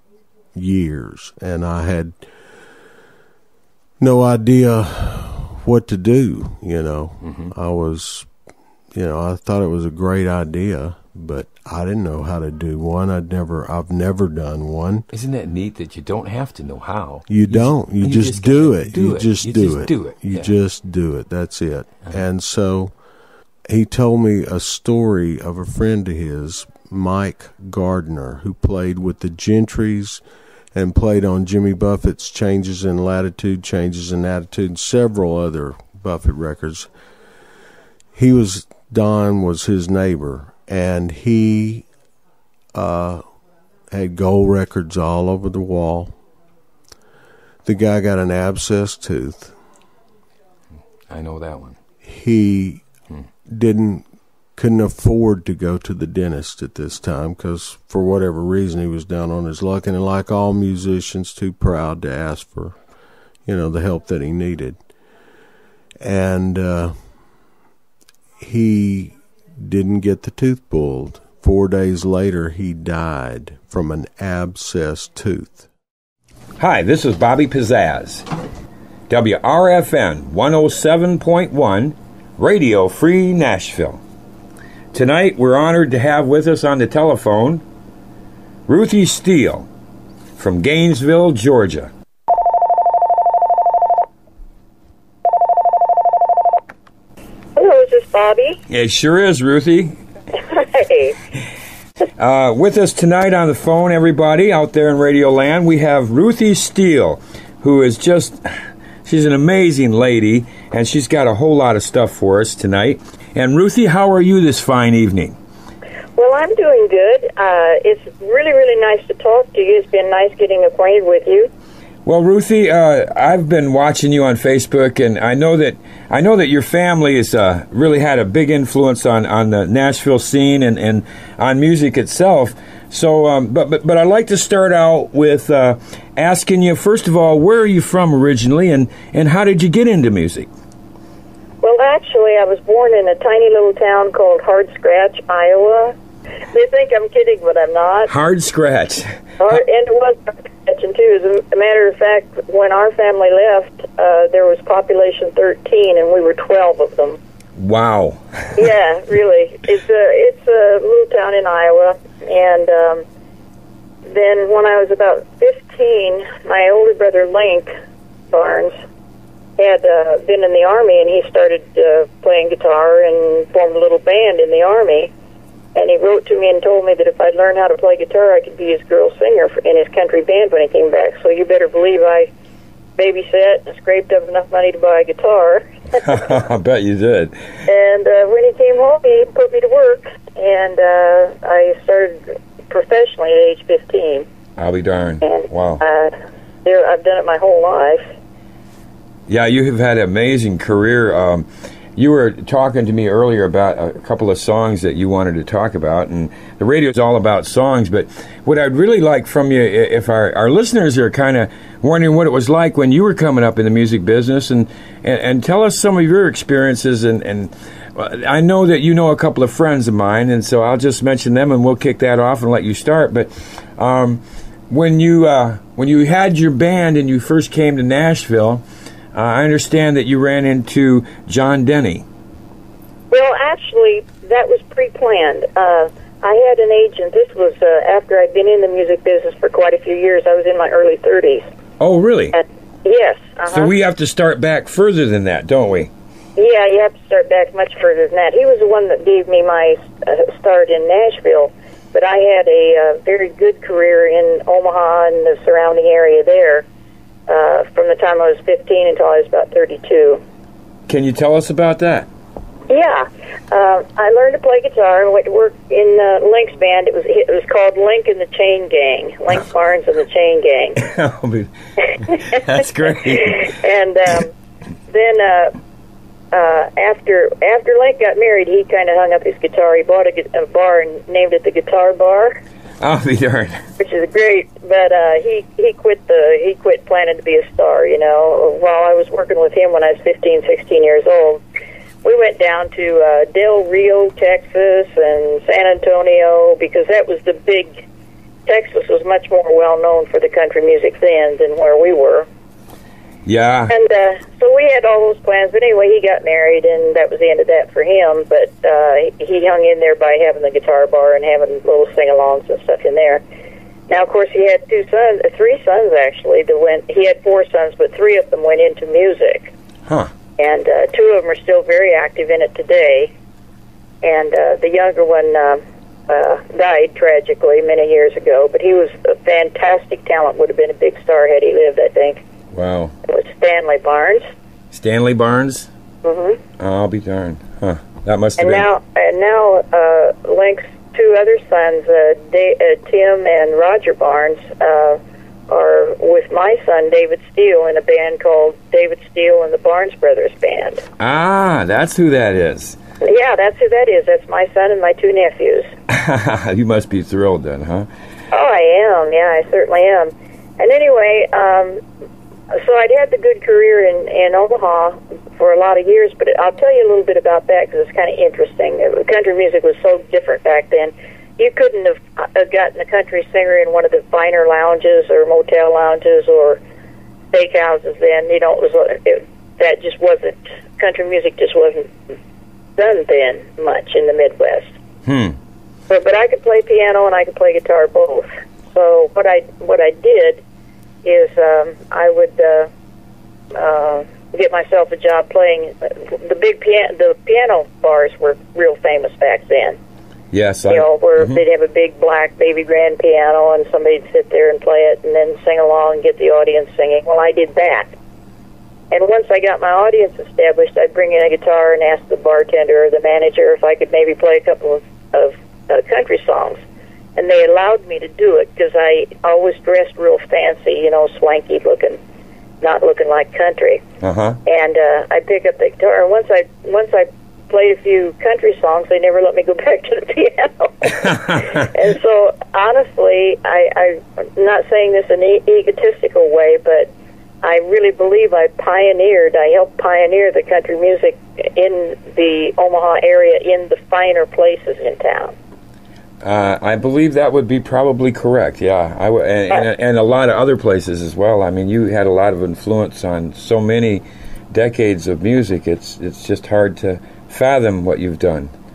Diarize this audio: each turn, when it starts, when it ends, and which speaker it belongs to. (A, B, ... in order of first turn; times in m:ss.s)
0:00.5-0:02.2 A
0:04.0-0:08.3 A
0:07.2-0:07.5 B
0:08.9-0:15.0 A
0:15.1-0:20.5 B
0:17.3-0:22.9 A
0:23.7-0:30.2 A
0:30.7-0:36.9 A
0:38.1-0:41.8 A
0:42.7-0:43.2 A
0:43.9-0:46.2 A
0:47.6-0:49.6 A
0:51.1-0:51.8 B
0:52.0-0:52.8 A
0:53.5-1:02.8 A
1:03.4-1:04.8 A
1:06.0-1:06.9 A
1:08.4-1:15.7 A
1:16.6-1:18.2 B
1:19.1-1:24.0 B
1:24.9-1:27.6 B
1:28.7-1:29.7 B
1:30.4-1:31.9 B
1:37.6-1:38.6 C
1:38.7-1:40.0 B
1:40.3-1:41.2 C
1:42.2-1:48.5 B
1:49.0-1:55.4 B
1:56.2-2:01.5 C
2:02.0-2:20.5 B
2:21.6-2:25.9 C
2:26.5-2:28.1 C
2:28.1-2:29.6 B
2:29.4-2:37.2 C
2:37.6-2:38.6 B
2:38.6-2:43.0 C
2:44.1-2:47.7 C
2:48.3-2:48.7 C
2:49.6-2:55.1 C
2:55.7-3:02.3 C
3:03.0-3:05.7 C
3:05.9-3:07.4 B
3:07.6-3:14.2 C
3:14.6-3:15.8 B
3:15.2-3:16.1 C
3:16.6-3:18.1 C
3:19.3-3:21.4 B
3:22.0-3:48.6 B
3:49.1-3:52.0 B
3:53.1-4:01.4 C
4:01.8-4:02.4 B
4:02.3-4:03.7 C
4:03.5-4:05.9 B
4:06.4-4:16.6 C
4:17.3-4:20.2 C
4:20.9-4:22.1 B
4:22.7-4:30.8 C
4:30.8-4:33.5 B
4:31.9-4:34.3 C
4:34.9-4:35.5 C
4:36.3-4:42.4 C
4:42.8-4:43.6 B
4:43.8-4:51.4 C
4:52.0-4:57.8 C
4:58.4-5:02.3 C
5:03.2-5:03.7 B
5:03.7-5:13.2 C
5:13.9-5:19.5 C
5:19.9-5:20.1 B
5:20.4-5:23.1 C
5:24.0-5:32.2 C
5:32.5-5:32.9 B
5:33.0-5:34.2 C
5:34.7-5:35.7 B
5:36.0-5:36.4 C
5:36.6-5:38.7 B
5:38.4-5:50.8 C
5:51.0-5:52.8 B
5:53.0-5:55.7 C
5:55.9-5:57.9 B
5:58.3-6:01.8 C
6:02.5-6:16.6 C
6:17.3-6:21.9 C
6:22.8-6:24.7 C
6:25.0-6:25.4 B
6:25.9-6:30.4 C
6:31.0-6:32.7 C
6:33.5-6:39.8 C
6:40.3-6:41.4 B
6:40.7-6:47.9 C
6:48.9-6:56.6 C
6:57.2-7:02.0 C
7:02.6-7:03.8 C
7:04.0-7:04.4 B
7:04.4-7:25.3 C
7:11.0-7:11.6 B
7:26.2-7:38.5 B